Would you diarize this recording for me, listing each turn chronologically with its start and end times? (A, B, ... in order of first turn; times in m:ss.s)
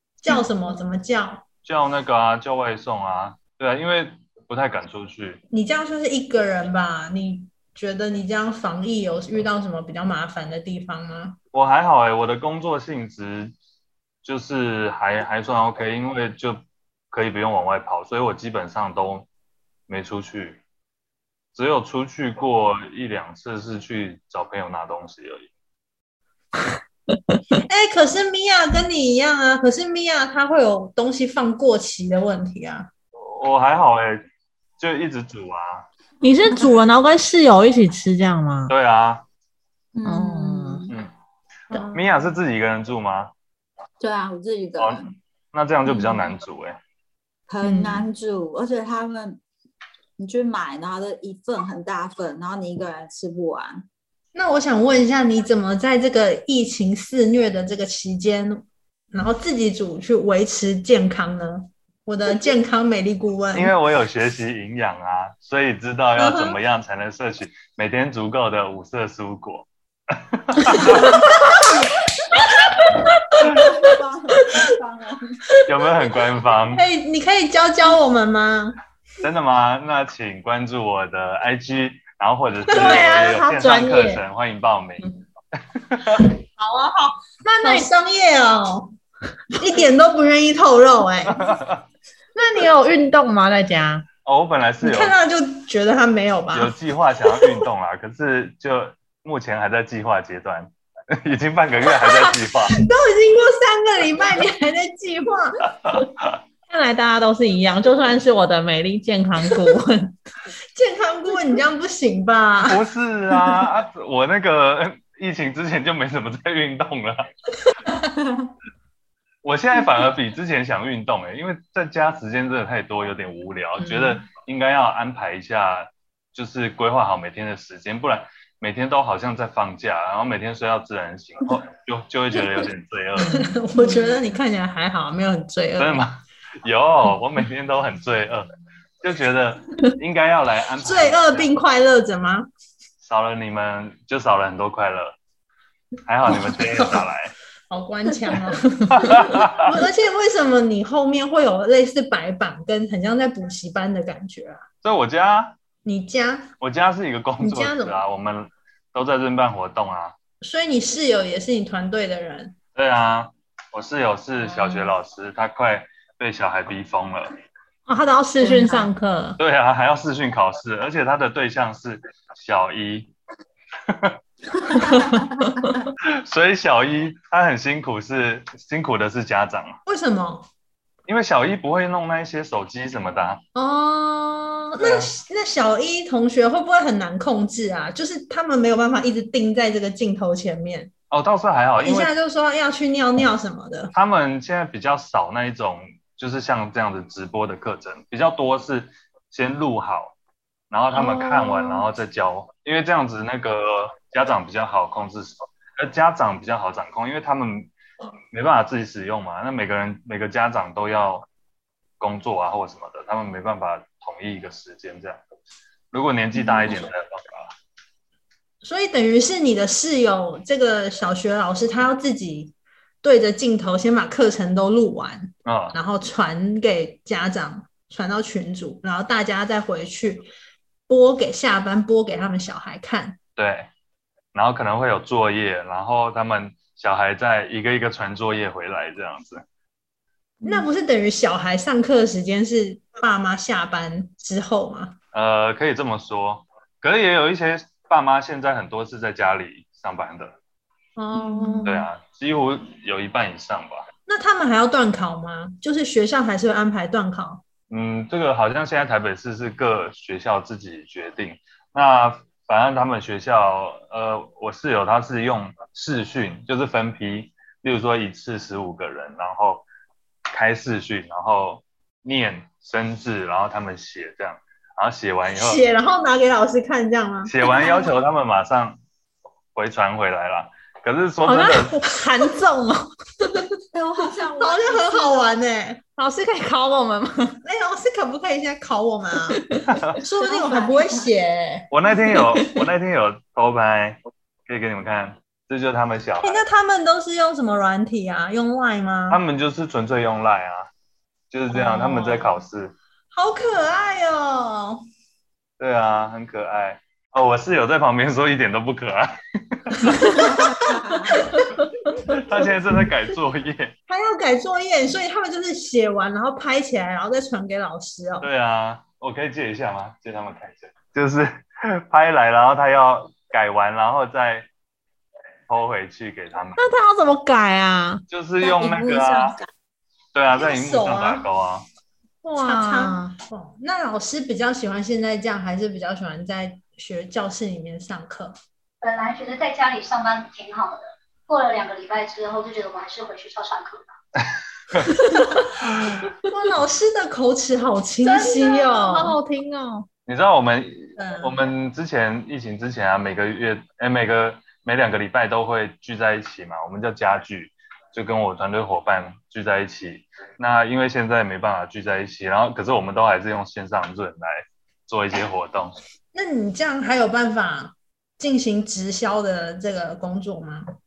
0:00.2-0:01.4 A
0:01.6-0:05.4 B
0:05.5-0:11.4 A
0:11.5-0:13.6 B
0:14.2-0:19.3 B
0:19.9-0:20.6 B
0:21.6-0:25.5 B
0:27.7-0:32.9 A
0:33.2-0:34.3 B
0:34.8-0:35.9 B
0:36.2-0:38.7 C
0:38.7-0:39.2 B
0:39.9-0:40.9 D
0:40.0-0:40.9 C
0:41.8-0:43.3 B
0:44.0-0:45.2 D
0:45.5-0:46.8 B
0:45.9-0:46.2 D
0:47.5-0:49.4 D
0:47.6-0:48.1 C
0:50.2-0:53.8 D
0:54.4-1:03.7 A
1:03.5-1:11.2 B
1:06.2-1:06.5 A
1:10.8-1:11.7 A
1:13.5-1:15.4 D
1:15.7-1:16.8 B
1:16.7-1:18.8 A
1:19.2-1:25.1 B
1:22.7-1:24.2 C
1:25.8-1:26.3 B
1:26.6-1:28.9 A
1:27.4-1:27.9 C
1:29.5-1:31.5 A
1:31.3-1:31.8 B
1:32.4-1:34.1 C
1:34.2-1:35.2 B
1:34.8-1:37.6 A
1:36.5-1:42.8 B
1:42.7-1:45.7 A
1:46.7-1:50.2 C
1:50.8-1:52.8 A
1:52.7-1:57.2 B
1:59.4-2:13.3 B
2:03.8-2:04.2 A
2:13.2-2:13.6 C
2:13.3-2:16.0 A
2:15.8-2:18.5 B
2:19.0-2:21.5 B
2:20.8-2:22.5 A
2:23.0-2:25.2 B
2:26.1-2:27.3 B
2:26.4-2:27.0 A
2:27.7-2:34.6 A
2:29.0-2:29.7 B
2:34.8-2:35.6 B
2:35.8-2:36.5 A
2:36.6-2:40.1 B
2:37.4-2:38.0 A
2:40.4-2:42.6 A
2:42.8-2:47.3 B
2:44.5-2:44.9 A
2:47.9-2:49.4 C
2:48.4-2:48.9 D
2:49.4-2:53.1 B
2:53.9-2:54.2 B
2:54.7-2:55.2 D
2:56.0-2:59.8 B
2:59.9-3:00.5 A
3:01.1-3:03.4 B
3:03.6-3:10.9 A
3:04.8-3:05.1 B
3:11.1-3:12.1 B
3:11.8-3:13.9 A
3:13.9-3:20.2 B
3:20.7-3:27.7 B
3:21.0-3:21.9 A
3:28.3-3:31.3 B
3:32.0-3:35.2 B
3:35.9-3:37.5 B
3:38.6-3:50.3 A
3:45.5-3:45.8 B
3:50.9-3:53.2 A
3:53.4-3:53.7 B
3:54.3-3:59.4 B
4:00.4-4:00.7 D
4:00.4-4:05.0 A
4:05.1-4:10.4 B
4:11.0-4:11.9 A
4:11.6-4:13.9 B
4:14.1-4:17.4 A
4:17.7-4:29.6 B
4:30.3-4:35.6 B
4:35.3-4:37.8 A
4:37.2-4:38.8 B
4:39.6-4:41.8 B
4:41.2-4:42.9 C
4:43.7-4:45.2 D
4:44.4-4:45.8 A
4:46.0-4:47.4 C
4:47.4-4:49.4 A
4:49.3-4:49.7 C
4:49.7-4:50.0 B
4:50.0-4:51.7 A
4:50.0-4:51.1 D
4:51.7-4:56.4 B
4:56.2-4:59.2 A
4:59.1-5:00.7 B
5:01.3-5:02.7 B
5:01.5-5:02.4 A
5:03.1-5:04.8 A
5:05.6-5:10.4 B
5:10.0-5:10.5 A
5:10.1-5:11.3 D
5:11.2-5:11.6 A
5:12.0-5:13.7 B
5:13.9-5:18.3 A
5:18.2-5:24.5 B
5:25.5-5:26.7 B
5:26.6-5:28.0 C
5:28.1-5:29.4 B
5:28.4-5:29.5 D
5:30.2-5:31.7 B
5:30.3-5:31.3 A
5:32.2-5:33.2 C
5:32.4-5:38.3 A
5:38.8-5:43.9 E
5:45.3-5:49.2 A
5:48.0-5:49.9 C
5:50.1-6:05.8 B
5:51.0-5:51.4 A
6:06.1-6:10.7 A